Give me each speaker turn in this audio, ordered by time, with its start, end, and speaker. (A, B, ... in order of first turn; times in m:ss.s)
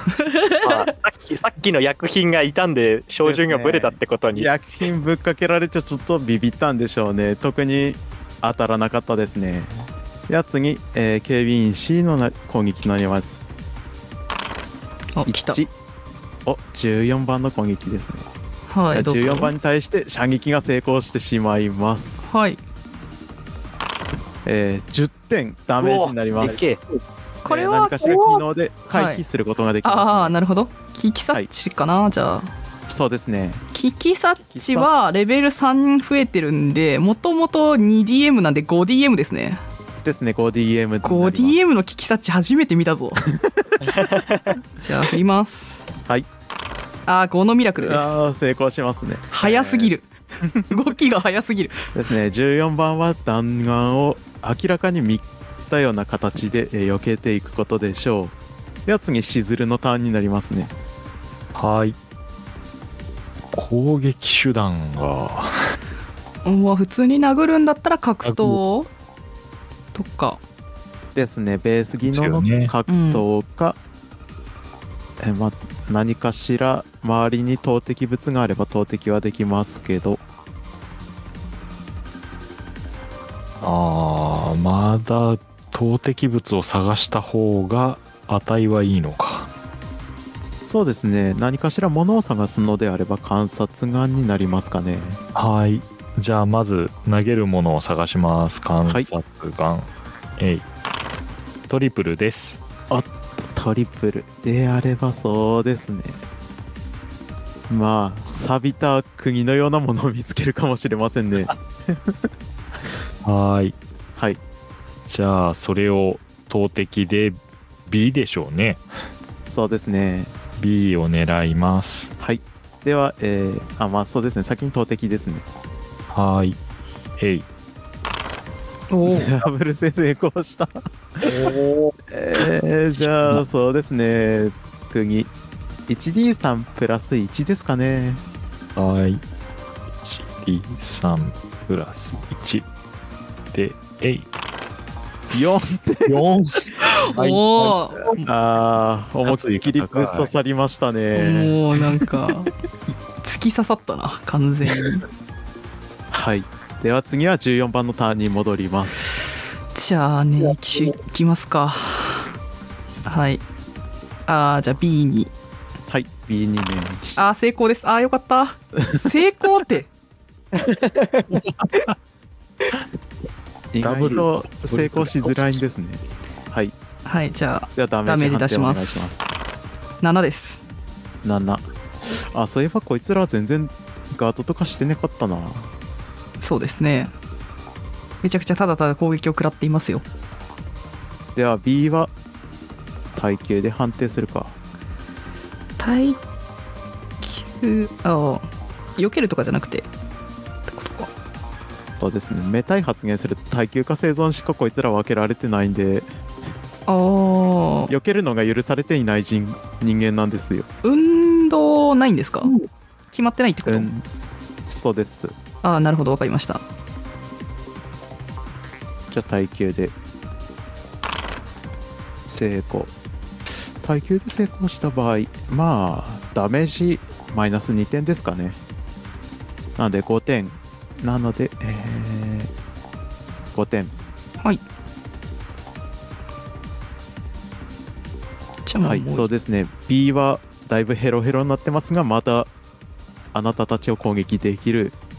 0:00.1-0:00.9 A
0:00.6-0:04.5 B
0:03.2-0:13.4 C
0:15.2-0:15.6 A
0:15.3-0:15.7 C
0:16.4-0:18.3 C
0:18.7-0:19.5 A
0:18.9-0:22.2 C
0:22.2-0:22.6 A
0:24.4-0:26.6 C
0:25.8-0:26.8 B
0:27.4-0:29.2 A
0:27.5-0:30.4 C
0:29.8-0:32.5 A
0:32.9-0:33.6 C
0:33.7-0:39.6 A
0:34.5-0:34.9 C
0:40.0-0:41.6 C
0:41.0-0:43.2 A
0:43.3-0:43.8 C
0:43.8-0:44.6 B
0:44.8-0:45.8 A
0:47.1-0:48.2 A
0:47.8-0:49.9 C
0:49.3-0:50.1 A
0:50.7-0:51.8 A
0:51.9-0:58.4 C
0:58.9-1:00.7 C
1:01.5-1:02.0 D
1:03.5-1:05.6 D
1:06.4-1:08.9 A
1:08.2-1:08.6 D
1:09.9-1:10.4 A
1:11.2-1:13.8 C
1:12.0-1:12.7 D
1:12.9-1:13.2 A
1:15.2-1:20.2 C
1:23.6-1:29.5 D
1:30.7-1:35.2 C
1:35.4-1:40.6 D
1:41.7-1:42.6 D
1:42.9-1:46.2 C
1:47.7-1:52.2 C
1:53.2-1:53.8 D
1:55.1-1:58.8 D
1:59.5-2:00.3 C
2:00.6-2:02.1 D
2:02.2-2:05.4 C
2:06.1-2:06.6 D
2:07.2-2:07.5 D
2:08.9-2:09.4 A
2:09.1-2:11.3 C
2:11.2-2:11.9 B
2:12.1-2:15.3 C
2:13.0-2:13.4 D
2:15.9-2:18.2 C
2:18.8-2:19.2 D
2:20.0-2:22.7 D
2:23.5-2:24.3 D
2:25.3-2:26.2 C
2:26.1-2:27.9 D
2:26.8-2:28.3 A
2:28.1-2:32.1 C
2:29.3-2:30.3 D
2:31.1-2:32.5 A
2:33.2-2:35.0 A
2:36.1-2:39.0 C
2:39.7-2:42.3 A
2:43.0-2:43.4 A
2:44.3-2:45.3 A
2:45.9-2:47.2 C
2:47.2-2:49.9 A
2:48.8-2:49.1 C
2:50.6-2:51.4 B
2:51.4-2:51.9 D
2:53.7-2:56.8 C
2:53.8-2:55.6 D
2:57.0-2:59.1 A
2:57.8-2:59.3 C
3:00.0-3:00.6 A
3:01.2-3:01.7 C
3:02.3-3:05.7 C
3:06.4-3:07.1 A
3:08.2-3:10.0 A
3:11.4-3:12.1 C
3:13.2-3:14.6 C
3:15.8-3:16.2 A
3:17.2-3:19.9 A
3:20.7-3:21.1 A
3:22.0-3:26.1 C
3:26.9-3:27.9 A
3:27.9-3:30.7 C
3:30.8-3:32.5 A
3:33.1-3:33.9 A
3:33.6-3:34.0 C
3:34.7-3:35.3 C
3:35.6-3:36.6 A
3:39.1-3:39.9 C
3:42.3-3:42.9 C
3:43.8-3:48.6 C
3:49.8-3:52.5 C
3:53.5-3:53.9 C
3:58.7-3:59.3 A
3:58.8-4:02.5 C
4:03.3-4:05.0 C